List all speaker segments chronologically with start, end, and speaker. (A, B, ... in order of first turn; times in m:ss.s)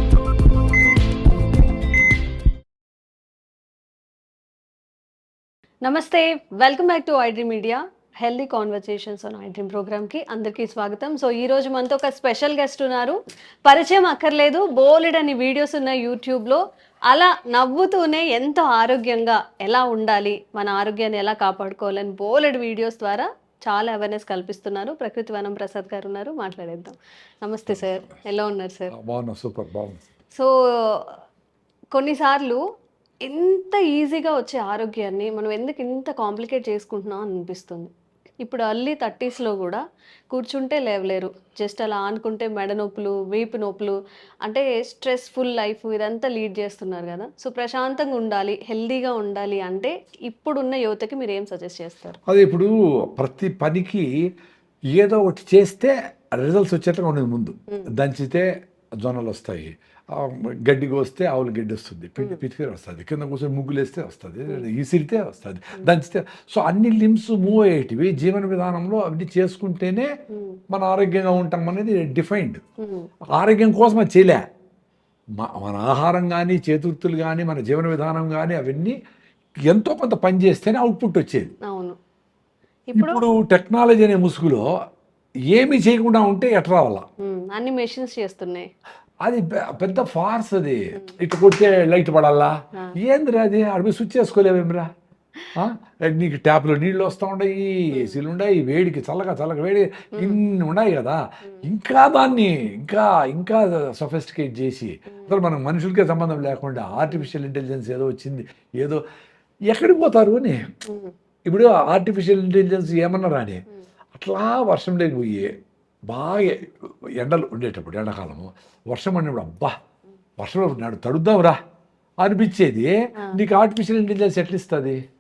0:05.8-0:28.9 A
0:28.9-0:30.0 B
0:30.4-0:31.2 A
0:31.9-0:32.6 A
0:33.2-0:37.9 A
0:38.4-0:52.2 A
0:52.3-0:54.1 B
0:54.9-0:58.5 B
0:59.0-1:10.1 B
1:10.3-1:10.6 A
1:10.7-1:12.6 B
1:12.8-1:13.1 A
1:13.4-1:14.4 B
1:15.4-1:19.0 B
1:19.7-1:21.5 B
1:21.6-1:22.0 A
1:23.0-1:23.2 A
1:23.0-1:24.6 B
1:25.5-1:27.1 B
1:27.2-1:28.7 A
1:29.2-1:34.9 B
1:35.6-1:49.0 B
1:37.9-1:38.2 A
1:45.1-1:45.4 A
1:49.7-1:50.6 B
1:51.5-1:53.6 B
1:54.2-1:55.5 B
1:56.1-1:59.7 B
2:00.4-2:01.6 B
2:02.2-2:05.0 B